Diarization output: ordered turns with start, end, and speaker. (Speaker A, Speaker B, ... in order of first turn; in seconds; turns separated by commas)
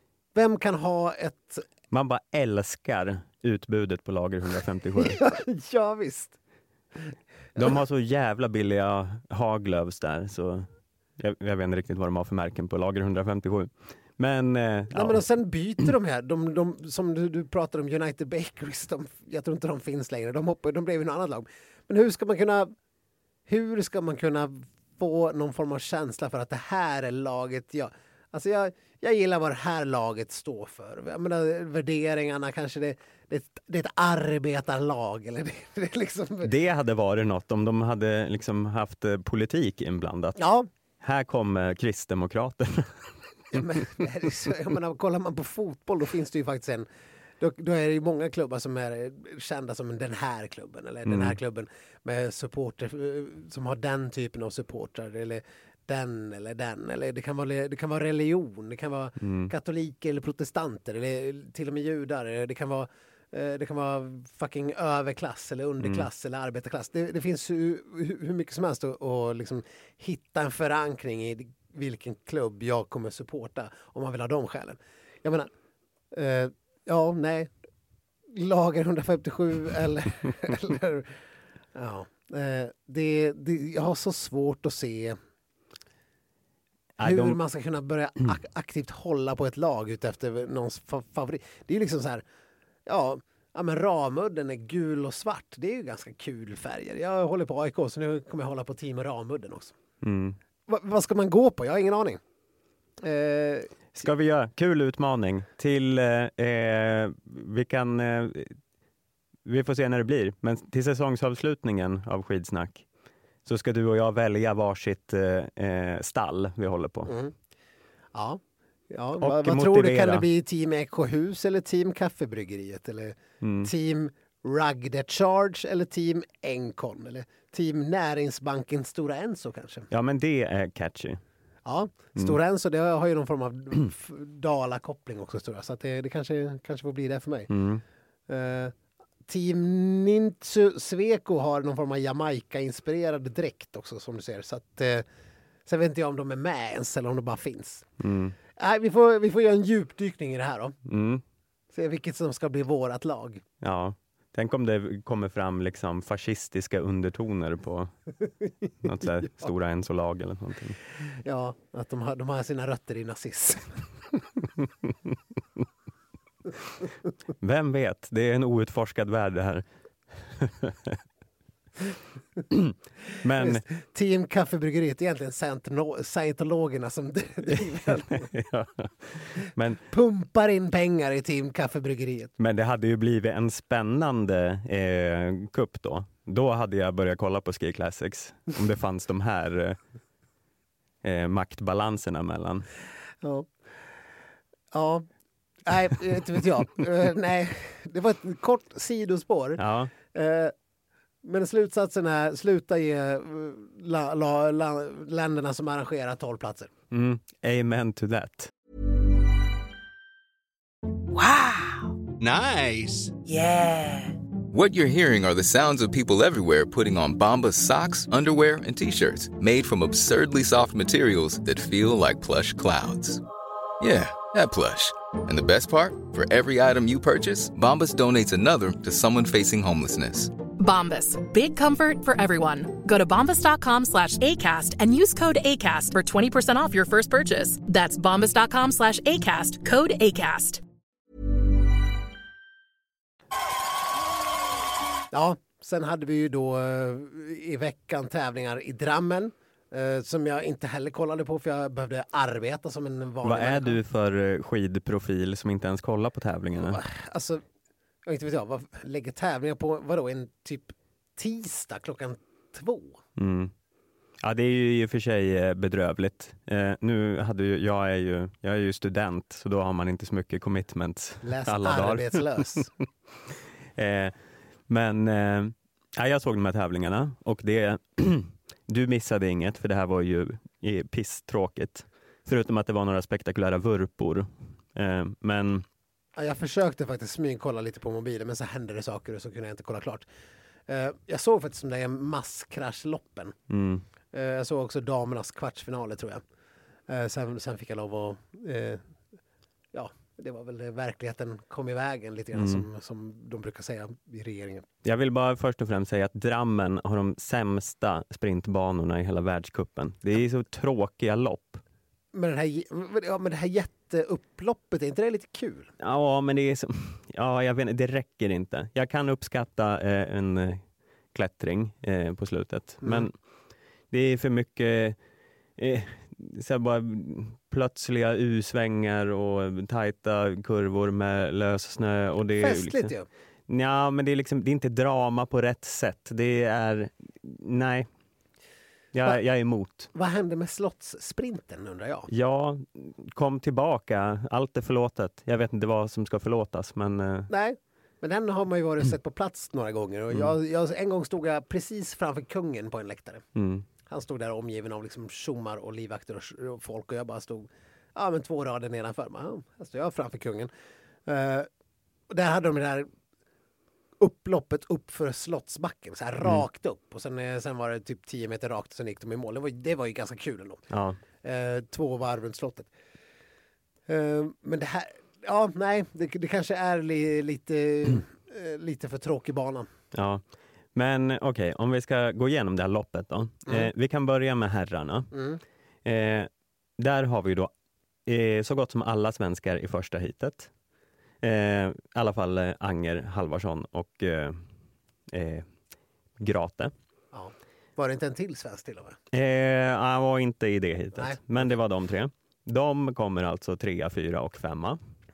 Speaker A: 0.3-1.6, Speaker B: 1.9-5.2, Speaker A: 5.0-6.4, Speaker B: 7.5-10.7, Speaker B: 11.2-15.2, Speaker A: 14.9-22.7, Speaker A: 23.5-36.5, Speaker B: 36.4-40.4, Speaker A: 40.4-40.7, Speaker B: 41.0-44.0, Speaker A: 43.5-46.9, Speaker A: 47.4-75.5, Speaker B: 51.0-51.4, Speaker B: 59.2-59.5, Speaker B: 65.8-66.1, Speaker A: 76.1-77.5, Speaker A: 78.3-81.2, Speaker A: 81.7-85.2, Speaker B: 87.0-87.4, Speaker A: 87.0-92.2, Speaker A: 92.8-99.8, Speaker B: 100.0-100.4, Speaker A: 100.7-102.2, Speaker A: 103.0-104.1, Speaker B: 104.0-108.6, Speaker B: 109.4-112.8, Speaker B: 113.4-117.1, Speaker A: 117.1-117.3, Speaker A: 118.1-129.9, Speaker B: 119.2-120.3, Speaker B: 123.4-123.7, Speaker B: 129.9-131.2, Speaker A: 131.7-137.5, Speaker B: 137.5-137.8, Speaker A: 138.3-138.7, Speaker A: 139.3-145.0, Speaker A: 145.7-147.8, Speaker B: 148.0-148.3, Speaker A: 148.6-150.7, Speaker B: 150.8-151.2, Speaker A: 151.7-153.4, Speaker B: 153.6-157.9, Speaker B: 158.8-160.8, Speaker A: 158.8-159.5, Speaker A: 161.1-164.4, Speaker B: 167.4-171.0, Speaker B: 172.5-173.6, Speaker A: 173.3-178.3, Speaker B: 178.1-179.8, Speaker A: 179.8-182.3, Speaker B: 182.4-189.8, Speaker B: 191.0-192.7, Speaker A: 193.2-193.5, Speaker A: 194.7-195.1, Speaker A: 195.6-200.5, Speaker B: 199.6-199.9, Speaker A: 201.2-206.7, Speaker B: 206.9-208.5, Speaker C: 212.2-213.1, Speaker C: 214.5-223.2, Speaker C: 223.8-230.3, Speaker D: 230.6-240.6, Speaker A: 245.1-253.8, Speaker B: 253.2-256.8, Speaker A: 256.5-257.4, Speaker A: 258.1-263.0, Speaker B: 263.2-263.5, Speaker B: 264.2-272.6, Speaker A: 271.2-272.7, Speaker B: 273.3-285.6, Speaker A: 286.2-290.0, Speaker A: 290.7-293.4, Speaker B: 293.5-293.8, Speaker A: 294.1-296.2, Speaker A: 296.9-298.9, Speaker A: 299.7-304.6, Speaker B: 302.3-302.6, Speaker B: 304.8-311.6, Speaker A: 312.1-315.7, Speaker B: 315.8-323.1, Speaker A: 322.8-323.1, Speaker B: 323.9-325.0, Speaker B: 325.6-332.9, Speaker A: 332.4-333.1, Speaker B: 333.5-337.9, Speaker B: 338.9-339.9, Speaker A: 339.9-342.1, Speaker B: 342.1-347.3, Speaker A: 347.3-353.2, Speaker B: 353.4-353.7, Speaker A: 353.8-360.5, Speaker A: 361.1-361.5, Speaker A: 362.1-362.9, Speaker A: 364.0-370.6, Speaker B: 370.7-371.0, Speaker A: 371.2-372.7, Speaker A: 373.9-379.7, Speaker B: 379.9-380.2, Speaker B: 380.7-385.1, Speaker A: 385.1-385.4, Speaker B: 385.8-387.5, Speaker B: 388.1-390.5, Speaker B: 391.2-394.4, Speaker B: 395.1-395.5, Speaker B: 396.2-396.7, Speaker A: 397.1-399.0, Speaker B: 399.1-404.8, Speaker A: 400.9-401.5